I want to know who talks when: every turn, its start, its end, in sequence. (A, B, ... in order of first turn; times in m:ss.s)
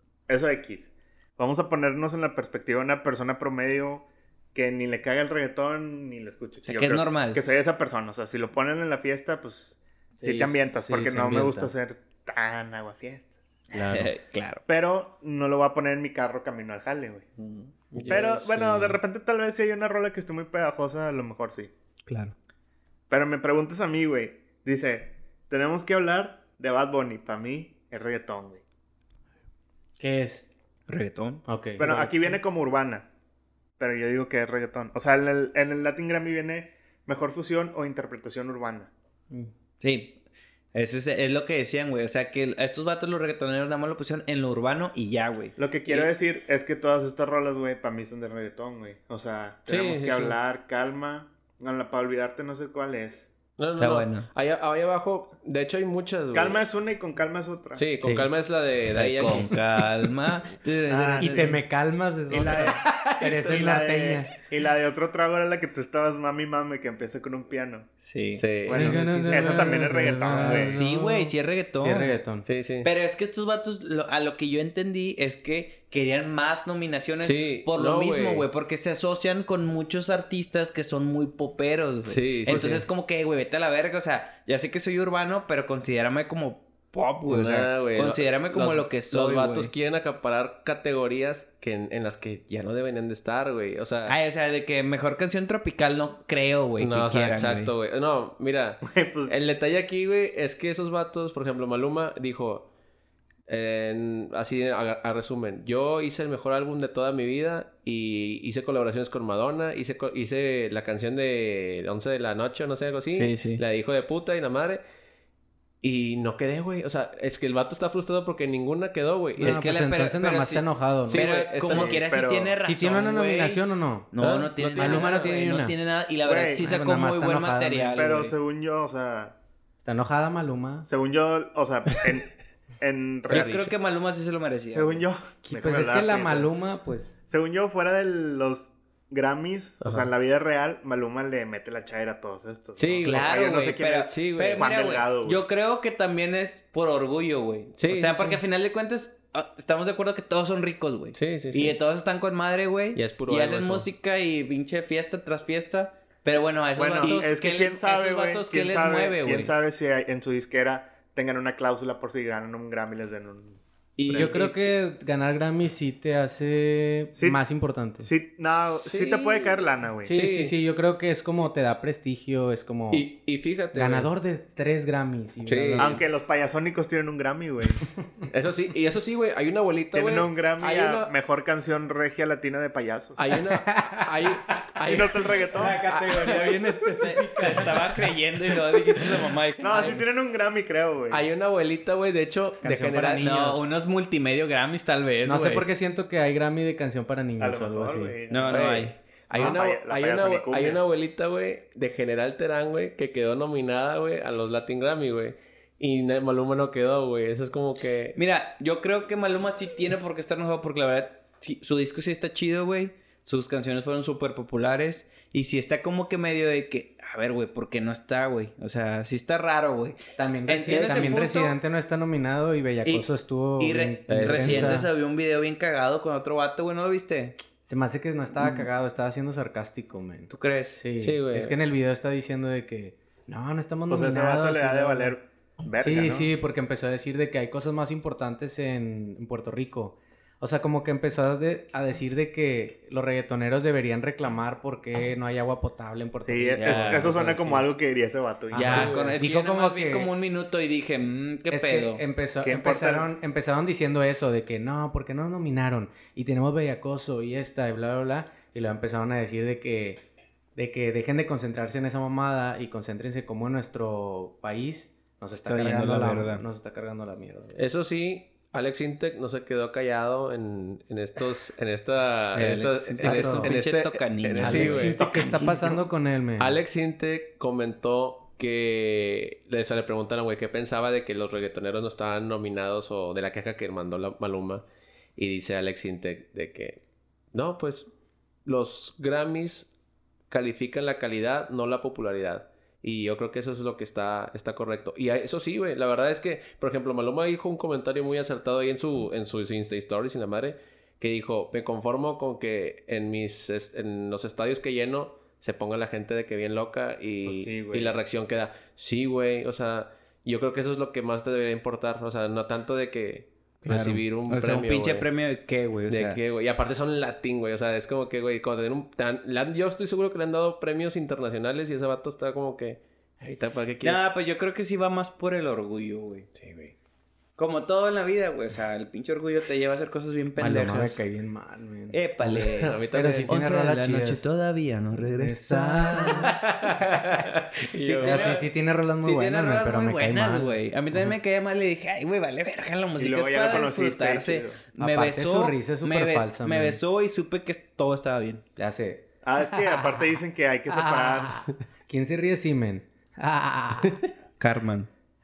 0:00.3-0:13.3 A
0:06.6-0:07.4 B
0:10.2-0:11.7 C
0:13.7-0:14.1 C
0:13.8-0:14.6 B
0:14.7-0:21.7 A
0:17.9-0:18.4 D
0:18.0-0:18.9 B
0:22.1-0:22.3 B
0:23.1-0:28.6 A
0:30.0-0:30.4 C
0:30.9-0:32.1 B
0:31.4-0:32.4 C
0:31.8-0:33.1 A
0:33.8-0:38.9 A
0:39.8-0:40.2 B
0:40.7-0:46.1 B
0:45.6-0:53.3 A
0:49.7-0:50.4 D
0:53.6-0:56.6 D
0:53.8-0:54.3 B
0:56.3-0:57.8 A
0:57.7-0:59.6 D
0:58.0-0:58.3 B
0:58.9-1:01.6 B
1:00.9-1:01.6 A
1:01.2-1:04.3 C
1:02.3-1:07.9 A
1:08.0-1:12.2 B
1:08.4-1:09.0 D
1:08.7-1:10.8 A
1:08.7-1:12.4 C
1:12.4-1:12.9 D
1:12.8-1:29.7 B
1:17.2-1:18.4 D
1:22.0-1:22.8 D
1:22.5-1:22.8 C
1:27.3-1:34.2 D
1:34.1-1:37.7 B
1:36.8-1:42.7 D
1:38.8-1:39.3 A
1:43.5-1:54.8 D
1:53.1-1:53.6 B
1:55.8-1:59.6 D
1:59.4-2:01.2 C
1:59.4-2:08.3 B
2:01.1-2:02.0 D
2:01.6-2:02.5 A
2:02.6-2:04.1 C
2:04.2-2:05.2 D
2:04.7-2:05.7 C
2:06.2-2:06.6 A
2:06.6-2:08.0 C
2:07.9-2:09.3 A
2:09.8-2:10.9 C
2:10.8-2:13.7 A
2:13.3-2:15.0 B
2:13.3-2:13.6 D
2:14.7-2:16.5 A
2:15.4-2:17.1 C
2:17.3-2:25.4 A
2:19.8-2:20.1 D
2:22.8-2:23.5 D
2:23.0-2:39.5 B
2:24.1-2:24.7 D
2:27.8-2:28.4 D
2:31.1-2:31.8 D
2:32.9-2:33.9 D
2:36.8-2:44.4 A
2:44.0-2:44.6 D
2:44.1-2:48.1 C
2:48.0-2:50.1 A
2:48.7-2:50.6 D
2:50.0-2:53.0 C
2:52.9-2:54.1 D
2:53.7-2:56.0 C
2:55.4-2:56.0 D
2:55.8-2:57.8 A
2:58.3-3:01.1 D
2:59.9-3:03.2 A
3:03.2-3:06.6 D
3:03.5-3:09.2 C
3:04.9-3:05.8 A
3:07.0-3:10.1 B
3:09.6-3:11.2 A
3:11.1-3:13.3 D
3:12.6-3:13.7 C
3:13.2-3:15.7 B
3:15.2-3:18.2 C
3:17.4-3:18.8 A
3:18.3-3:19.0 B
3:18.5-3:28.2 D
3:19.3-3:20.8 A
3:28.1-3:41.6 B
3:40.2-3:44.9 C
3:40.7-3:41.2 D
3:42.8-3:47.4 B
3:44.1-3:44.8 D
3:47.6-3:55.2 C
3:48.4-3:48.6 B
3:50.3-3:50.8 B
3:51.0-3:51.6 D
3:53.9-3:56.3 A
3:55.8-4:07.6 C
4:06.2-4:08.9 A
4:06.6-4:07.2 B
4:08.5-4:10.1 C
4:08.5-4:12.0 B
4:08.6-4:09.2 D
4:11.5-4:20.0 C
4:12.4-4:13.1 A
4:20.6-4:27.6 C
4:25.4-4:26.4 B
4:27.5-4:35.1 D
4:32.3-4:33.5 C
4:32.4-4:35.5 B
4:34.4-4:36.6 C
4:35.1-4:35.5 A
4:36.4-4:44.6 D
4:45.2-4:46.8 D
4:47.3-4:47.9 D
4:48.4-4:49.7 D
4:50.3-5:15.0 D
5:07.2-5:07.9 A
5:13.6-5:16.2 B
5:15.9-5:24.0 D
5:23.8-5:26.3 B
5:26.4-5:26.7 D
5:27.4-5:31.0 B
5:30.4-5:32.0 C
5:31.9-5:36.4 B
5:32.2-5:33.3 D
5:32.9-5:34.2 C
5:35.0-5:36.5 C
5:36.0-5:38.4 D
5:37.8-5:48.4 B
5:38.0-5:40.6 C
5:43.0-5:44.6 A
5:44.8-5:46.8 C
5:48.6-5:50.2 C
5:49.2-5:51.4 A
5:50.7-5:54.0 C
5:54.4-5:54.9 B